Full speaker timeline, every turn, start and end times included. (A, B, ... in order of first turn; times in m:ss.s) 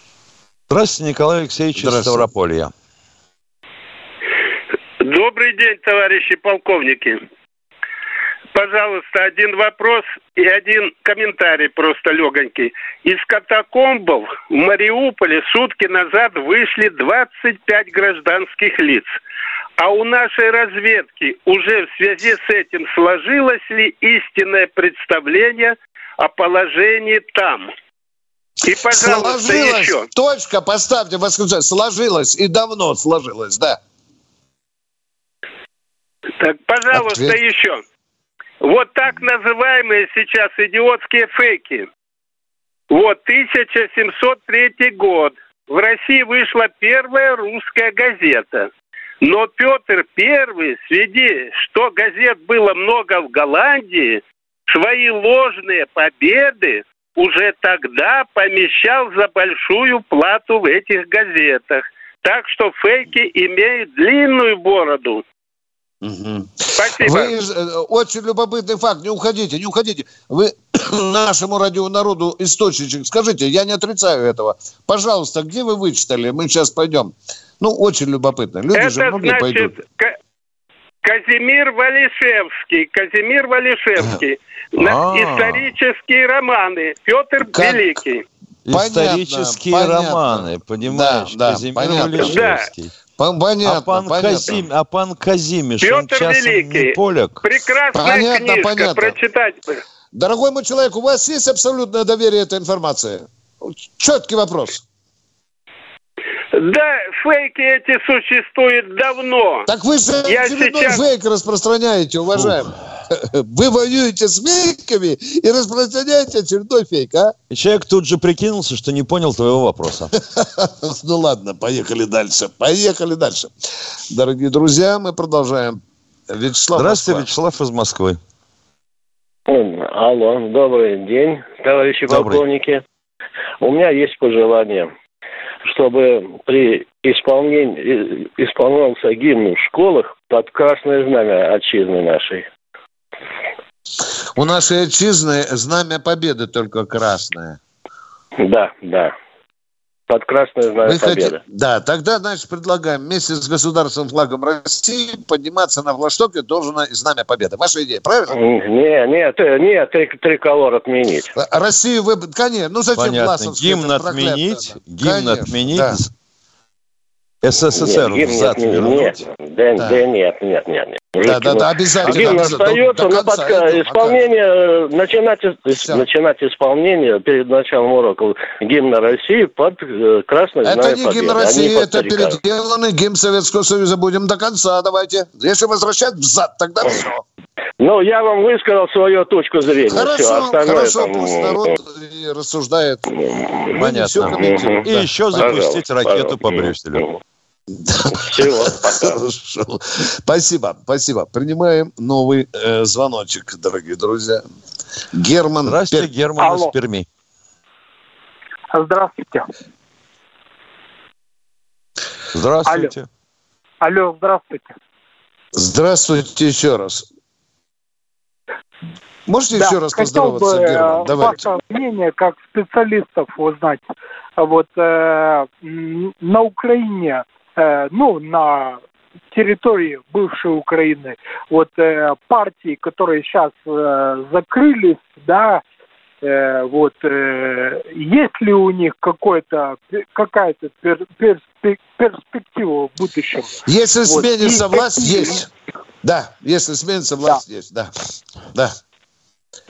0:00.7-0:02.7 A
0:01.7-0:02.3 B
0:05.0-0:07.2 C
0:08.5-0:19.1 C
0:19.8-0:27.7 C
0:28.6-0:30.1 C
0:28.9-0:33.8 B
0:36.4-0:37.8 C
0:36.9-0:37.4 B
0:38.6-0:41.9 C
0:42.9-0:48.7 C
0:49.2-1:05.2 C
1:06.0-1:19.7 B
1:06.8-1:07.3 C
1:18.7-1:20.1 C
1:21.0-1:28.2 C
1:24.8-1:25.7 A
1:27.5-1:27.9 B
1:28.7-1:32.9 A
1:28.7-1:32.4 B
1:32.2-1:32.7 C
1:33.2-1:34.6 B
1:33.6-1:37.4 A
1:35.8-1:39.8 C
1:37.9-1:39.2 B
1:40.1-1:44.8 B
1:46.5-1:49.7 C
1:49.6-1:57.3 B
1:50.2-1:51.1 C
1:57.5-2:00.1 A
2:00.3-2:03.5 B
2:04.1-2:07.3 B
2:06.7-2:08.2 A
2:09.5-2:12.8 D
2:12.1-2:12.4 A
2:13.6-2:14.9 D
2:15.6-2:22.4 D
2:24.4-2:27.6 B
2:28.4-2:29.1 D
2:30.1-2:31.4 D
2:30.8-2:38.4 B
2:38.3-2:41.3 D
2:41.3-2:46.0 B
2:43.0-2:46.1 A
2:47.4-2:49.2 A
2:47.7-3:02.4 D
2:49.8-2:50.0 B
2:51.2-2:54.2 B
2:52.0-2:52.7 A
2:55.8-2:56.0 B
3:00.6-3:07.2 B
3:07.8-3:11.7 D
3:09.9-3:13.0 B
3:13.1-3:17.2 D
3:13.7-3:17.0 A
3:13.8-3:15.5 B
3:17.7-3:24.4 B
3:18.2-3:19.1 D
3:25.1-3:26.1 B
3:25.6-3:27.1 A
3:26.4-3:26.7 E
3:28.7-3:29.5 E
3:32.3-3:33.1 A
3:32.6-3:32.9 E
3:33.8-3:34.7 E
3:35.5-3:37.0 B
3:39.3-3:41.5 B
3:39.5-3:43.8 E
3:44.4-3:48.8 E
3:49.3-3:55.6 E
3:56.2-4:05.4 E
4:03.6-4:05.5 B
4:06.0-4:07.9 B